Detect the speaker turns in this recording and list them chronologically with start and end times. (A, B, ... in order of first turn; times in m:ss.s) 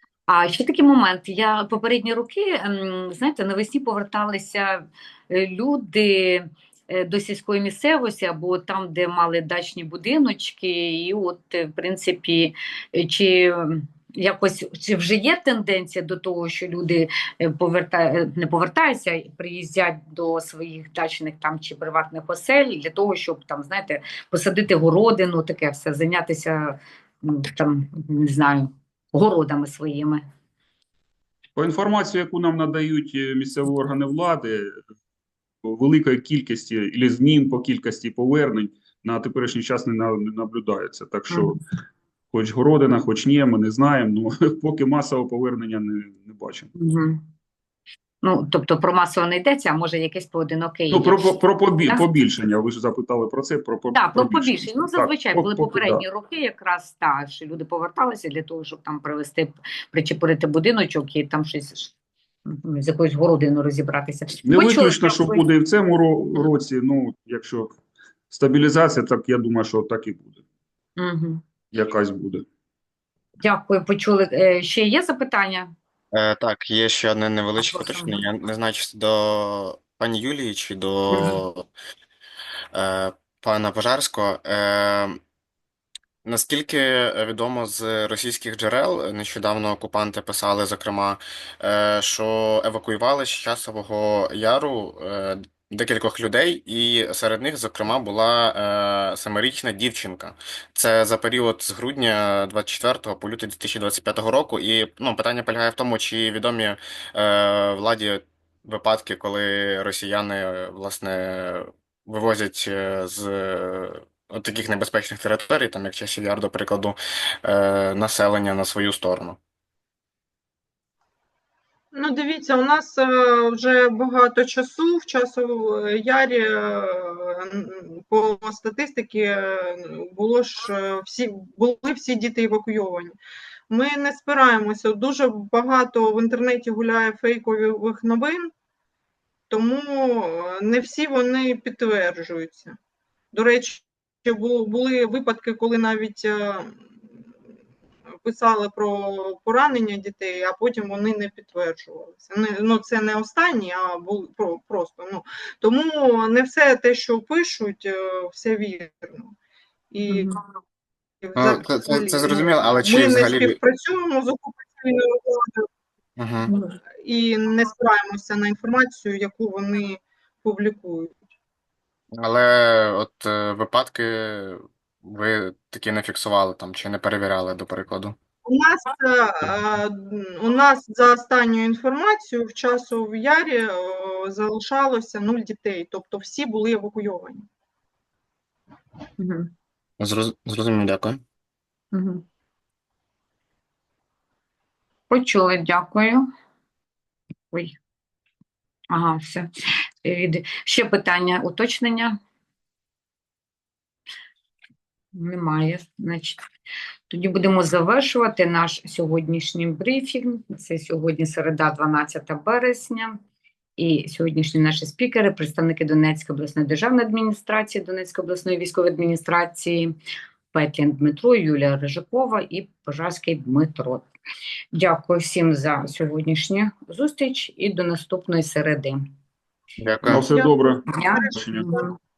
0:00.3-0:30.2 A
0:31.5-0:34.7 B
0:35.6-0:41.6 B
0:42.3-0:46.7 B
0:46.8-0:47.2 A
0:48.2-0:52.0 A
0:50.9-0:56.0 B
0:53.9-1:01.9 A
1:02.5-1:05.4 A
1:04.4-1:07.7 B
1:08.3-1:10.4 B
1:11.0-1:11.4 A
1:11.7-1:12.4 B
1:13.4-1:15.7 A
1:16.1-1:21.7 C
1:17.6-1:18.2 A
1:21.1-1:21.4 A
1:22.7-1:25.2 C
1:26.2-1:59.4 C
2:01.9-2:13.2 D
2:13.7-2:18.5 D
2:19.5-2:22.8 D
2:23.3-2:26.7 D
2:28.2-2:39.3 D
2:39.9-2:40.3 D
2:40.1-2:40.4 A
2:41.2-2:45.6 D
2:41.4-2:43.6 C
2:46.2-2:46.5 C
2:46.5-2:46.7 A
2:47.0-2:51.1 D
2:52.2-2:58.2 C
2:58.4-3:07.4 D
3:09.2-3:09.5 A
3:10.0-3:11.2 C
3:11.9-3:12.2 A
3:15.1-3:16.2 A
3:17.5-3:17.8 A
3:18.9-3:19.5 A
3:20.0-3:22.2 A
3:25.1-3:26.4 A
3:27.1-3:33.2 A
3:33.8-3:39.9 A
3:40.5-3:44.0 A
3:44.7-3:49.0 A
3:49.8-3:50.3 C
3:50.0-3:51.6 B
3:50.2-3:51.8 D
3:50.9-3:51.9 A